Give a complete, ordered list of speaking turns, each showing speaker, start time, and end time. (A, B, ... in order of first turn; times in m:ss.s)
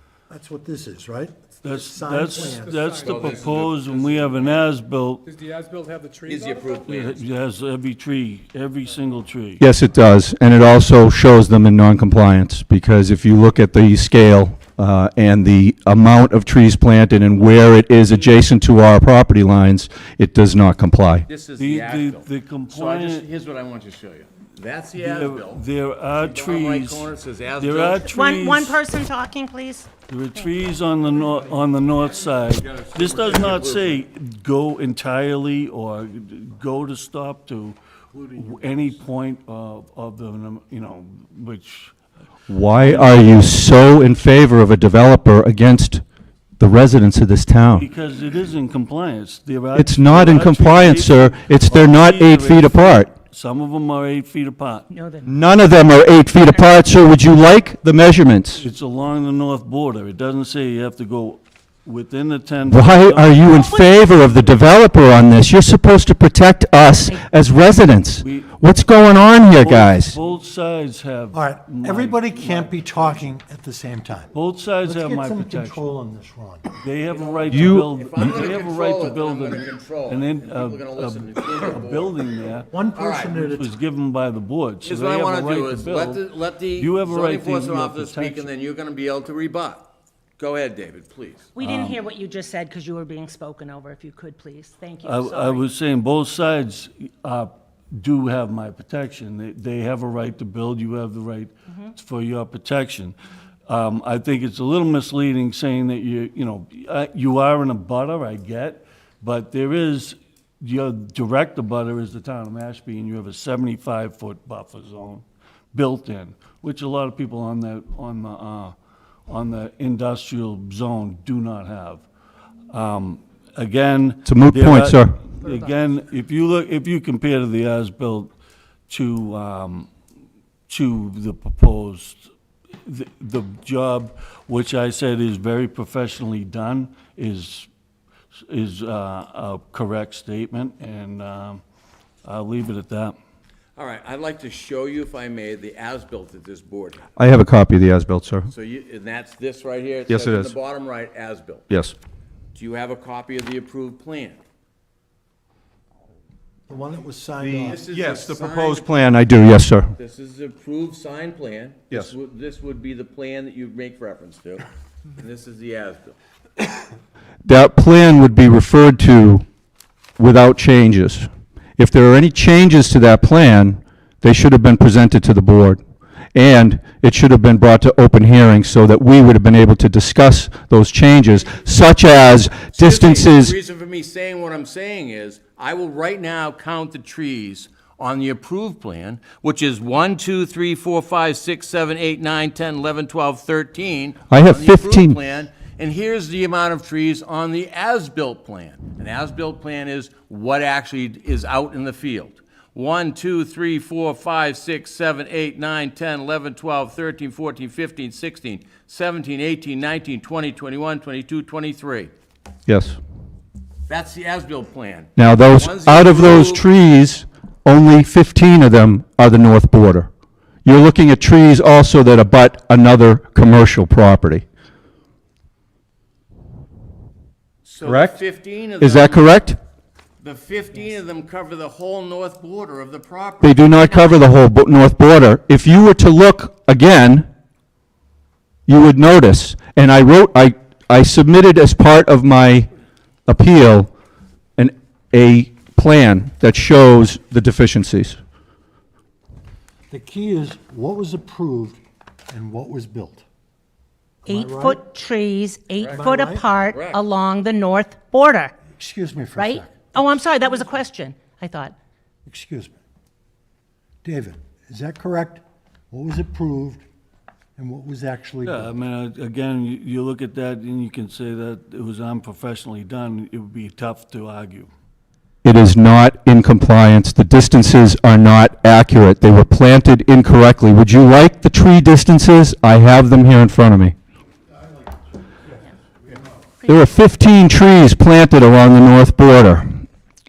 0:00.3-0:02.9 A
0:01.6-0:05.2 B
0:02.3-0:04.4 C
0:02.9-0:03.8 D
0:05.2-0:06.9 C
0:06.2-0:07.2 D
0:06.9-0:09.6 B
0:09.6-0:21.3 E
0:21.3-0:28.1 D
0:21.6-0:23.3 B
0:24.9-0:28.8 B
0:28.0-0:30.4 F
0:30.1-0:37.8 B
0:32.3-0:34.0 D
0:38.1-0:39.0 D
0:38.4-0:42.0 B
0:42.5-0:46.0 E
0:42.8-0:43.4 B
0:46.6-0:47.9 E
0:47.7-0:54.9 B
0:49.8-0:53.1 E
0:54.9-0:55.3 F
0:55.3-0:58.6 E
0:58.6-1:03.5 B
1:02.7-1:10.2 E
1:03.5-1:04.4 F
1:08.2-1:08.8 B
1:09.5-1:13.3 B
1:11.3-1:16.7 A
1:14.3-1:16.0 B
1:16.8-1:22.7 B
1:17.1-1:22.1 D
1:17.5-1:17.9 E
1:22.7-1:23.7 A
1:22.9-1:23.4 D
1:23.3-1:26.2 B
1:24.8-1:31.5 D
1:26.8-1:28.5 B
1:31.6-1:35.7 F
1:31.6-1:32.0 B
1:35.0-1:43.2 B
1:43.7-1:58.8 B
1:59.3-2:02.0 B
2:02.7-2:08.3 B
2:04.2-2:05.2 E
2:08.9-2:09.9 B
2:10.7-2:12.3 B
2:12.8-2:17.7 B
2:18.5-2:21.6 B
2:22.2-2:23.2 B
2:23.8-2:27.1 D
2:27.2-2:28.5 E
2:28.5-2:31.7 D
2:30.1-2:30.5 E
2:31.7-2:32.0 E
2:32.6-2:34.4 D
2:36.7-2:37.8 A
2:37.4-2:40.0 E
2:37.6-2:38.9 D
2:40.0-2:46.2 D
2:47.4-2:49.4 E
2:50.2-2:55.8 E
2:56.3-3:03.6 E
3:02.7-3:32.1 D
3:14.3-3:15.2 E
3:32.7-3:33.0 E
3:33.9-3:36.7 D
3:35.2-3:40.1 E
3:40.6-3:44.4 E
3:47.6-3:49.5 D
3:47.8-3:48.2 E
3:48.8-3:49.6 E
3:50.2-3:53.7 D
3:53.4-3:57.3 E
3:58.7-4:02.7 E
4:03.3-4:03.9 E
4:04.6-4:08.2 E
4:09.9-4:13.2 A
4:14.3-4:14.8 A
4:14.3-4:18.6 F
4:15.8-4:16.1 D
4:15.9-4:16.5 A
4:16.7-4:17.0 D
4:18.7-4:19.9 A
4:19.4-4:21.7 F
4:22.3-4:22.8 A
4:24.0-4:26.8 A
4:27.6-4:28.7 A
4:28.4-4:34.7 B
4:35.4-4:44.0 E
4:46.6-4:49.8 E